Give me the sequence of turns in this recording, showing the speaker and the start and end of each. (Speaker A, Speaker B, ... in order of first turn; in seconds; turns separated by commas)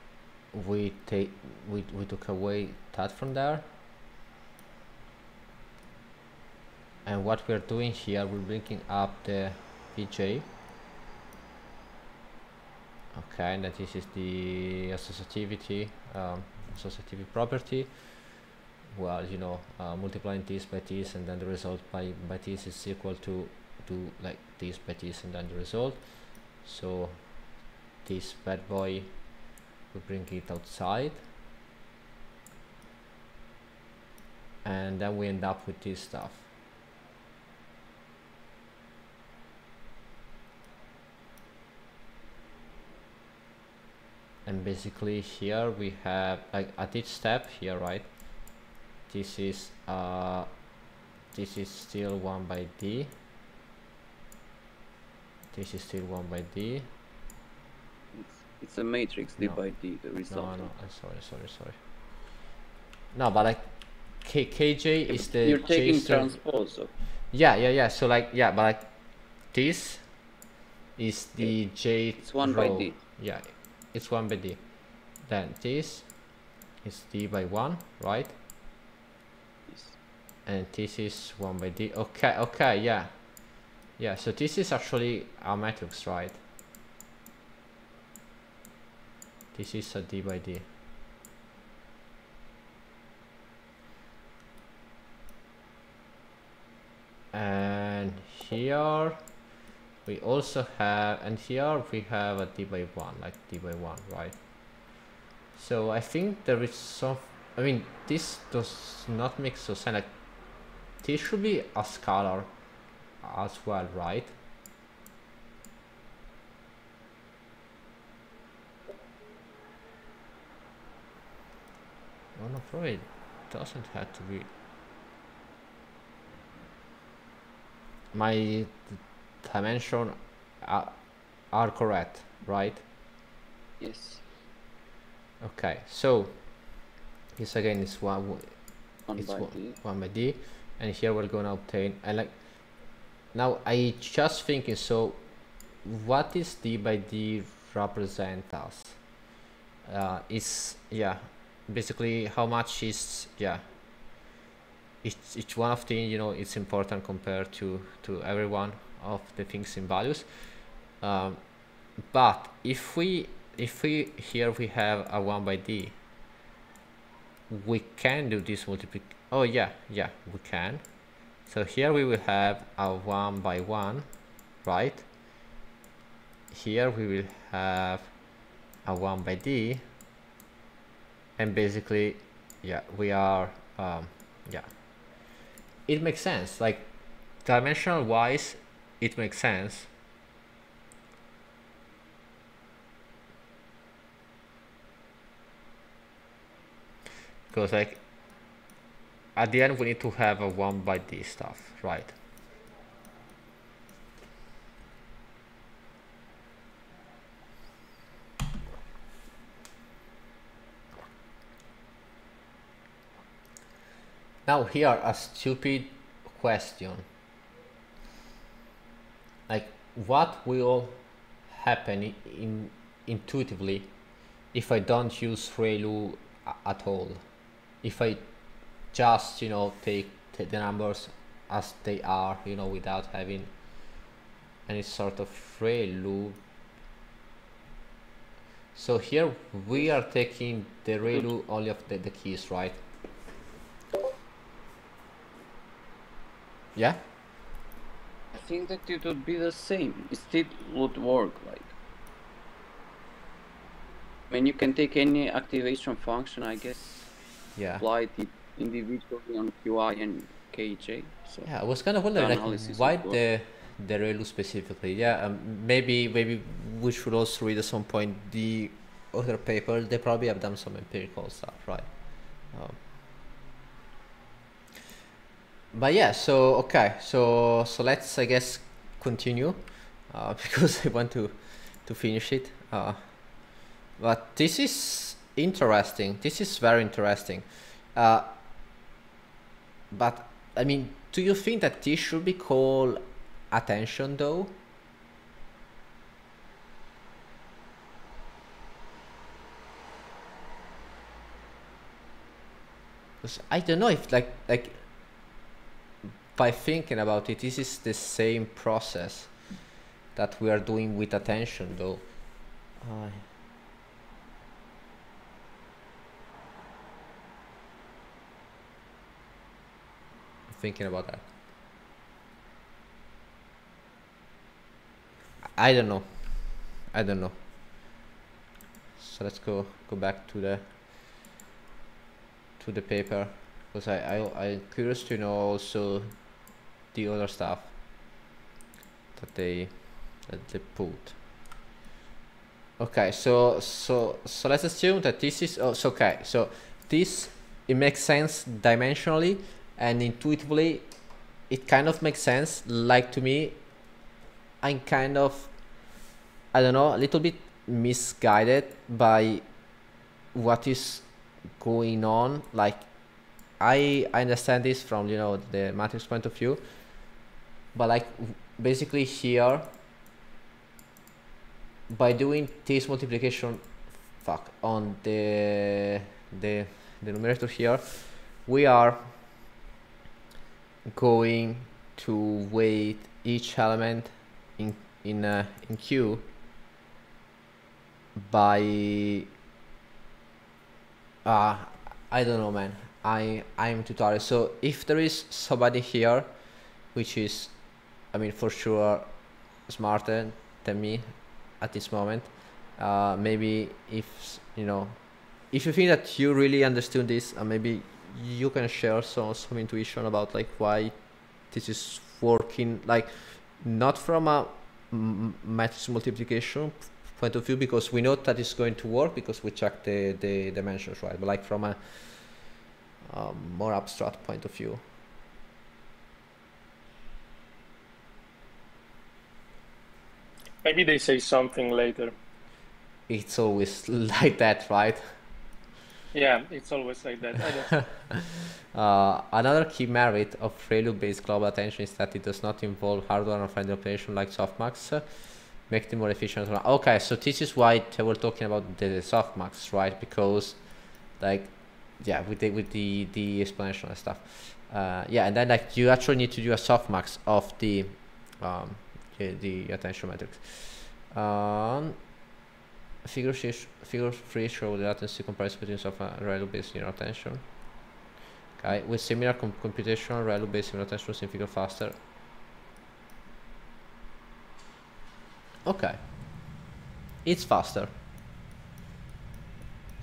Speaker A: 0.5-3.6, Speaker A: 7.1-10.5, Speaker A: 13.1-17.9, Speaker A: 18.9-26.0, Speaker A: 26.6-27.2, Speaker A: 28.1-29.1, Speaker A: 29.9-31.2, Speaker A: 34.6-36.5, Speaker A: 44.5-48.1, Speaker A: 49.1-50.5, Speaker A: 51.3-53.1, Speaker A: 55.5-56.9, Speaker B: 58.1-60.7, Speaker A: 60.3-61.8, Speaker A: 63.1-63.7, Speaker A: 64.2-66.4, Speaker B: 65.1-66.9, Speaker A: 67.3-68.9, Speaker A: 69.5-70.0, Speaker A: 71.0-74.6, Speaker B: 72.2-73.0, Speaker A: 75.3-76.1, Speaker A: 76.8-78.3, Speaker B: 79.7-80.0, Speaker A: 80.5-83.1, Speaker A: 84.0-86.4, Speaker A: 89.5-90.7, Speaker A: 97.3-99.2, Speaker A: 100.1-104.4, Speaker A: 105.5-110.1, Speaker A: 111.0-112.5, Speaker A: 113.2-114.3, Speaker A: 122.4-124.5, Speaker A: 128.1-131.0, Speaker A: 131.5-132.8, Speaker B: 133.8-134.2, Speaker A: 135.4-136.3, Speaker A: 137.4-138.6, Speaker B: 139.1-139.8, Speaker A: 139.2-142.3, Speaker A: 143.3-145.2, Speaker A: 145.8-149.0, Speaker A: 149.9-153.6, Speaker A: 155.0-160.3, Speaker A: 161.0-161.4, Speaker A: 162.1-165.9, Speaker A: 167.5-170.8, Speaker A: 171.5-174.1, Speaker A: 174.6-175.1, Speaker A: 176.5-178.1, Speaker A: 178.9-179.8, Speaker A: 181.4-184.7, Speaker A: 185.9-186.9, Speaker A: 187.4-189.9, Speaker A: 197.5-198.0, Speaker A: 199.4-202.2, Speaker A: 214.5-217.1, Speaker A: 219.5-223.9, Speaker A: 224.5-227.2, Speaker A: 227.8-228.2, Speaker A: 228.9-233.5, Speaker A: 234.7-236.4, Speaker A: 238.8-242.8, Speaker B: 248.3-251.7, Speaker B: 254.3-257.0, Speaker A: 257.6-257.9, Speaker B: 257.8-261.5, Speaker A: 261.4-271.9, Speaker B: 262.1-263.2, Speaker A: 272.5-272.8, Speaker A: 275.7-283.0, Speaker A: 284.0-288.3, Speaker A: 289.9-294.6, Speaker A: 303.2-304.8, Speaker A: 306.4-309.3, Speaker A: 310.1-312.0, Speaker A: 312.8-313.2, Speaker A: 320.5-321.2, Speaker A: 325.6-326.1, Speaker A: 326.9-327.4, Speaker A: 329.0-330.6, Speaker A: 332.6-336.1, Speaker A: 336.9-337.7, Speaker A: 339.2-339.7, Speaker A: 340.3-341.2, Speaker A: 342.8-350.9, Speaker A: 351.5-353.6, Speaker A: 354.6-355.5, Speaker A: 356.5-359.4, Speaker A: 360.3-361.1, Speaker A: 361.6-362.9, Speaker A: 363.6-366.6, Speaker A: 367.7-369.7, Speaker A: 371.9-373.6, Speaker A: 374.2-379.1, Speaker A: 380.9-386.2, Speaker A: 388.2-389.3, Speaker A: 391.2-396.3, Speaker A: 396.9-397.5, Speaker A: 398.1-399.1, Speaker A: 399.7-401.1, Speaker A: 401.6-405.0, Speaker A: 405.5-410.9, Speaker A: 411.5-422.4, Speaker A: 423.1-424.8, Speaker C: 430.6-432.1, Speaker A: 433.1-435.1, Speaker C: 436.1-437.8, Speaker A: 438.1-445.1, Speaker A: 445.6-450.6, Speaker A: 451.2-462.0, Speaker A: 463.1-467.4, Speaker A: 468.6-471.9, Speaker A: 475.6-476.0, Speaker A: 477.2-477.9